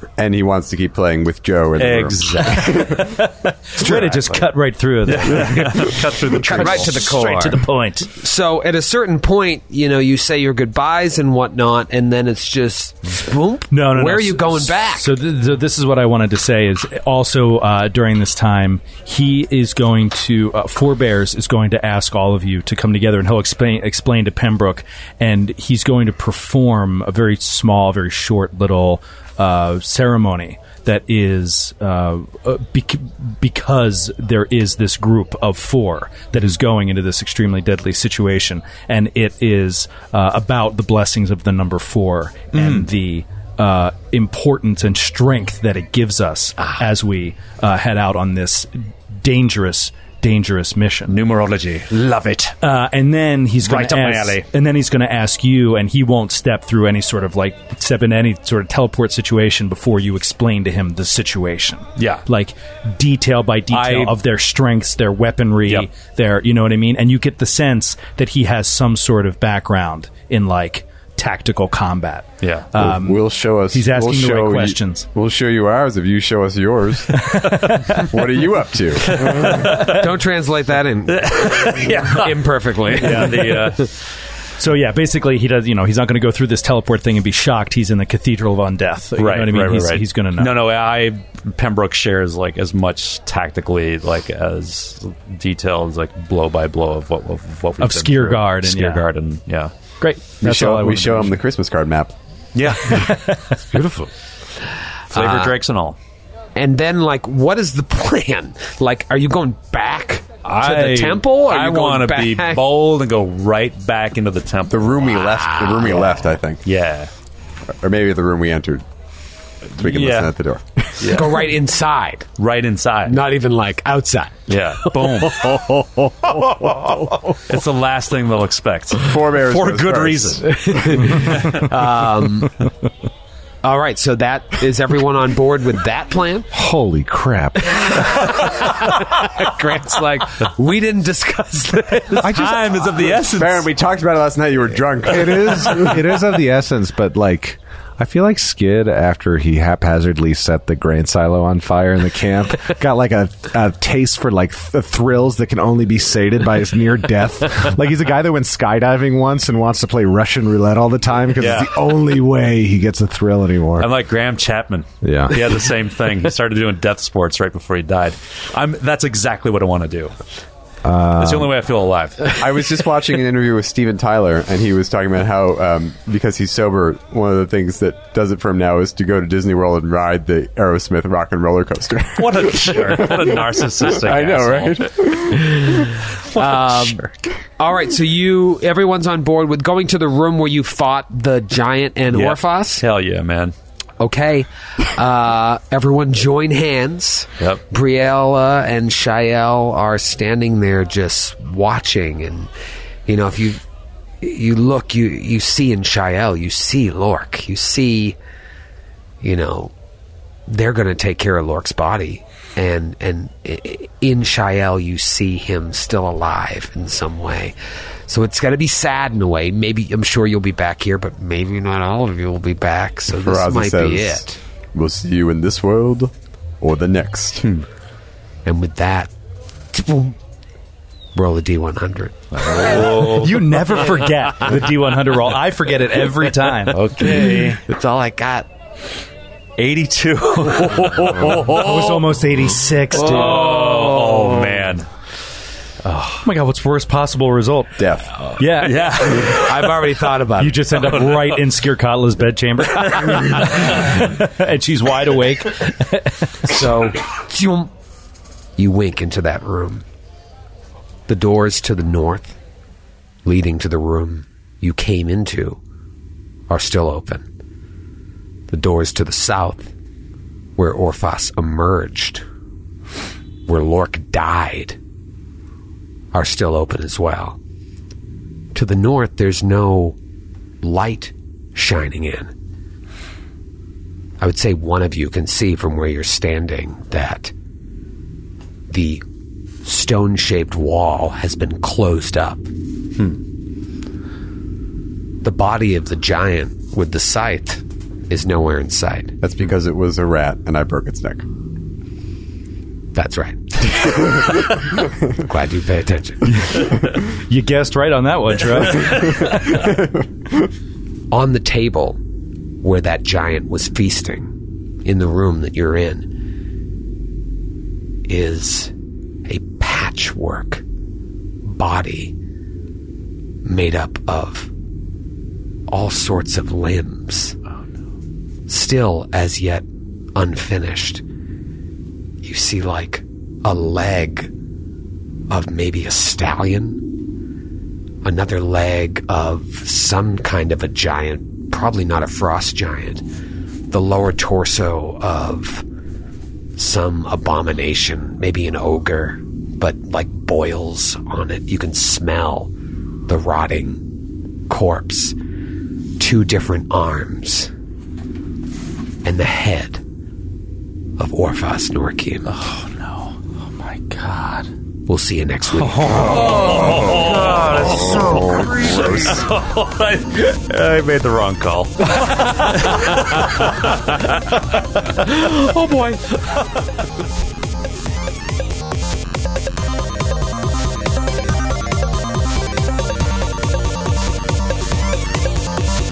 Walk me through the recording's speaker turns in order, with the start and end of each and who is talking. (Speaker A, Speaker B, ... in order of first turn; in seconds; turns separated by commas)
Speaker A: 0.2-3.1, Speaker B: 1.8-3.1, Speaker C: 2.6-8.1, Speaker B: 3.8-4.4, Speaker B: 5.0-7.2, Speaker D: 6.4-15.1, Speaker C: 13.7-51.1, Speaker B: 42.5-42.9, Speaker B: 51.1-52.6, Speaker C: 52.6-75.1, Speaker B: 53.6-54.4, Speaker B: 62.0-62.2, Speaker B: 63.7-64.2, Speaker B: 72.4-72.7, Speaker A: 72.8-79.8, Speaker C: 77.1-78.1, Speaker B: 79.0-80.1, Speaker C: 79.2-79.8, Speaker D: 79.6-83.7, Speaker B: 81.1-83.9, Speaker C: 83.4-83.7, Speaker C: 84.6-90.5, Speaker B: 89.2-99.7, Speaker C: 97.8-99.0, Speaker C: 100.0-101.4, Speaker A: 100.4-102.1, Speaker B: 102.5-104.1, Speaker C: 102.8-103.8, Speaker D: 105.1-105.5, Speaker B: 105.1-106.0, Speaker D: 106.5-112.6, Speaker B: 110.4-116.1, Speaker A: 114.7-116.6, Speaker D: 115.1-116.2, Speaker B: 116.6-117.1, Speaker A: 117.8-118.8, Speaker A: 119.8-121.3, Speaker B: 119.8-120.3, Speaker B: 121.0-121.5, Speaker D: 121.1-122.3, Speaker B: 122.4-123.2, Speaker D: 123.0-125.7, Speaker B: 124.5-125.8, Speaker D: 126.4-127.2, Speaker B: 127.5-131.7, Speaker A: 129.0-131.2, Speaker D: 130.5-132.6, Speaker D: 133.6-136.5, Speaker E: 136.5-137.9, Speaker D: 137.6-142.4, Speaker E: 142.2-142.8, Speaker B: 142.2-143.7, Speaker A: 143.2-145.9, Speaker E: 145.1-163.9, Speaker B: 161.4-161.7, Speaker B: 163.8-170.1, Speaker E: 165.0-165.5, Speaker E: 170.8-171.6, Speaker B: 171.2-172.4, Speaker A: 172.3-185.8, Speaker B: 182.2-184.9, Speaker D: 185.4-192.8, Speaker B: 186.2-187.1, Speaker B: 192.1-193.5, Speaker D: 194.0-202.5, Speaker D: 203.1-203.6, Speaker D: 204.2-208.2, Speaker D: 209.2-209.7, Speaker D: 210.5-217.5, Speaker D: 218.1-224.4, Speaker A: 223.1-227.5, Speaker D: 228.4-229.1, Speaker D: 229.7-230.2, Speaker D: 231.1-232.5, Speaker B: 232.3-233.8, Speaker C: 232.6-237.0, Speaker B: 236.7-237.6, Speaker D: 237.6-238.5, Speaker B: 239.6-242.2, Speaker C: 241.2-243.5, Speaker B: 242.9-244.9, Speaker D: 242.9-244.6, Speaker B: 245.8-246.2, Speaker C: 246.2-247.8, Speaker A: 247.8-248.1, Speaker B: 248.2-249.9, Speaker C: 248.4-249.2, Speaker D: 249.2-250.9, Speaker C: 250.3-256.5, Speaker B: 250.8-251.4, Speaker D: 256.4-257.7, Speaker D: 258.6-259.8, Speaker D: 261.1-262.4, Speaker D: 263.2-265.6, Speaker D: 266.5-267.2, Speaker D: 268.5-269.7, Speaker D: 270.6-272.2, Speaker D: 273.5-274.8, Speaker D: 276.1-277.4, Speaker D: 278.5-280.0, Speaker D: 280.6-282.3, Speaker D: 284.2-287.3, Speaker D: 288.7-289.0, Speaker D: 289.6-292.5, Speaker D: 295.2-299.1, Speaker A: 299.2-301.2, Speaker D: 302.9-304.2, Speaker D: 305.1-306.5, Speaker C: 306.4-309.3, Speaker A: 308.9-310.1, Speaker D: 311.1-312.0, Speaker D: 312.6-314.3, Speaker D: 314.8-316.1, Speaker D: 318.1-318.7, Speaker D: 319.2-320.6, Speaker D: 321.4-322.1, Speaker D: 323.4-324.5, Speaker D: 325.7-327.4, Speaker D: 328.5-331.0, Speaker D: 332.2-334.3, Speaker D: 335.3-336.8, Speaker D: 338.0-343.0, Speaker D: 343.7-345.6, Speaker D: 346.6-352.5, Speaker D: 353.1-353.9, Speaker D: 354.5-355.1, Speaker D: 356.0-357.5, Speaker D: 359.0-359.8, Speaker D: 361.0-362.3, Speaker B: 362.3-364.5, Speaker D: 364.9-366.2, Speaker B: 365.6-375.2